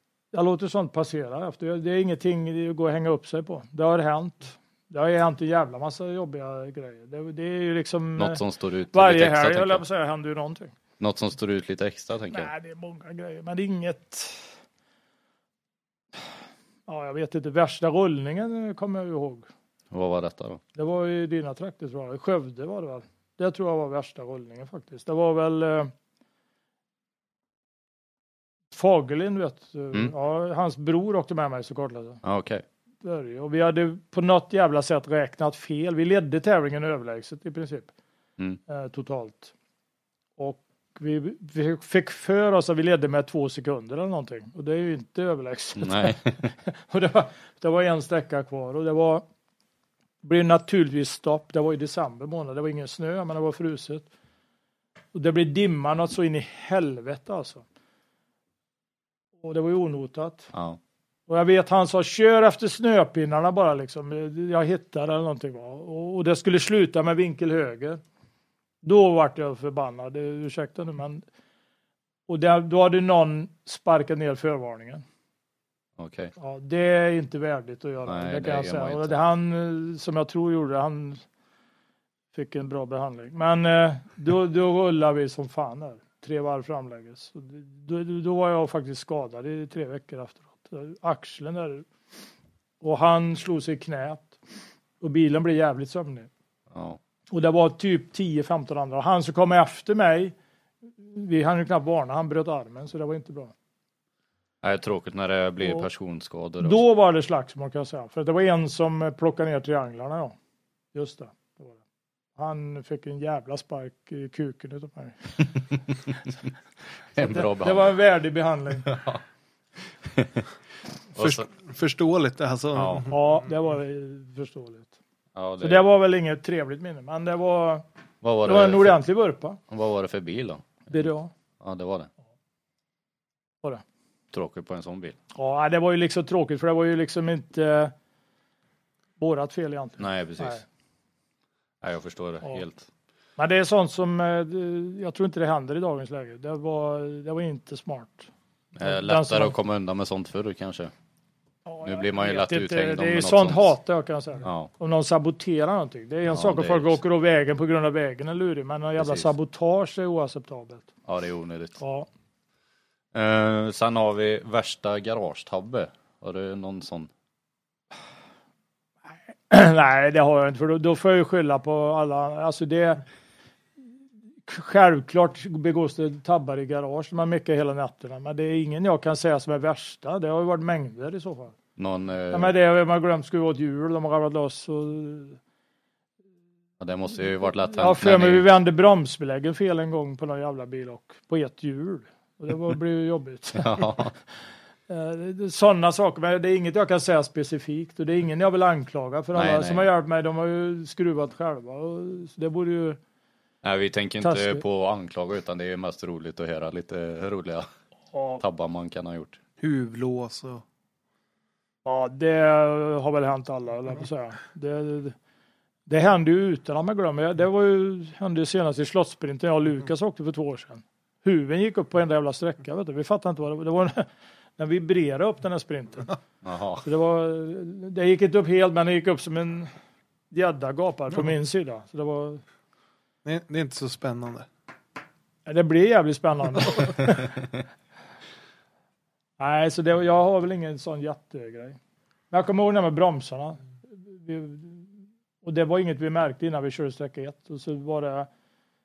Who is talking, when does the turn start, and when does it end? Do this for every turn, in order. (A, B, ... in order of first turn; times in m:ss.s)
0:00.3-0:08.4 A
0:08.2-0:09.8 B
0:08.9-0:10.7 A
0:11.0-0:12.5 B
0:12.3-0:14.6 A
0:16.9-0:19.5 A
0:19.9-0:20.6 B
0:20.8-0:25.9 A
0:28.7-0:32.2 A
0:32.2-0:32.6 B
0:33.0-0:37.9 A
0:38.7-0:39.5 A
0:40.4-0:49.2 A
0:45.8-0:46.5 B
0:50.2-0:54.1 A
0:55.1-0:57.6 A
0:59.4-1:00.5 A
1:00.5-1:00.8 B
1:01.3-1:08.0 A
1:08.8-1:11.2 A
1:12.3-1:15.0 A
1:16.0-1:16.3 B
1:16.4-1:21.2 A
1:18.1-1:19.2 B
1:22.3-1:31.8 A
1:32.8-1:34.4 A
1:35.0-1:36.3 A
1:36.7-1:37.0 B
1:37.3-1:40.3 A
1:41.0-1:43.5 A
1:44.6-1:46.8 B
1:46.6-1:50.3 A
1:50.9-1:51.8 A
1:52.4-1:55.6 A
1:57.2-1:57.9 B
1:57.2-1:58.9 A
1:58.9-1:59.2 B
2:00.0-2:00.4 B
2:01.1-2:01.5 B
2:01.2-2:03.2 C
2:02.8-2:03.1 B
2:03.1-2:04.9 A
2:05.4-2:05.8 B
2:05.6-2:07.8 A
2:08.2-2:09.0 B
2:08.4-2:09.6 A
2:09.7-2:11.1 B
2:10.9-2:11.3 A
2:11.6-2:12.1 B
2:14.3-2:15.2 B
2:15.4-2:17.9 A
2:19.2-2:20.6 A
2:20.0-2:20.6 B
2:21.8-2:22.9 B
2:23.4-2:28.3 A
2:28.8-2:30.9 B
2:28.8-2:29.5 A
2:31.7-2:40.9 A
2:31.8-2:33.7 B
2:34.4-2:34.7 B
2:36.3-2:37.0 B
2:39.0-2:39.3 B
2:41.1-2:41.8 B
2:41.8-2:42.1 A
2:43.1-2:47.1 B
2:49.5-2:53.0 A
2:54.5-3:01.6 A
3:01.8-3:02.5 B
3:02.3-3:05.4 A
3:06.8-3:08.5 B
3:07.7-3:14.1 A
3:13.6-3:14.1 B
3:14.9-3:23.0 A
3:19.4-3:19.9 B
3:23.6-3:27.7 B
3:24.2-3:24.6 A
3:28.1-3:28.4 A
3:28.4-3:29.4 B
3:29.6-3:30.6 C
3:31.8-3:35.2 A
3:35.9-3:44.1 A
3:44.6-3:46.2 A
3:46.4-3:46.8 B
3:46.8-3:49.7 A
3:50.3-3:52.4 A
3:53.2-3:54.5 C
3:55.5-3:57.4 A
3:59.4-4:01.8 A
4:02.3-4:04.9 A
4:05.4-4:08.3 A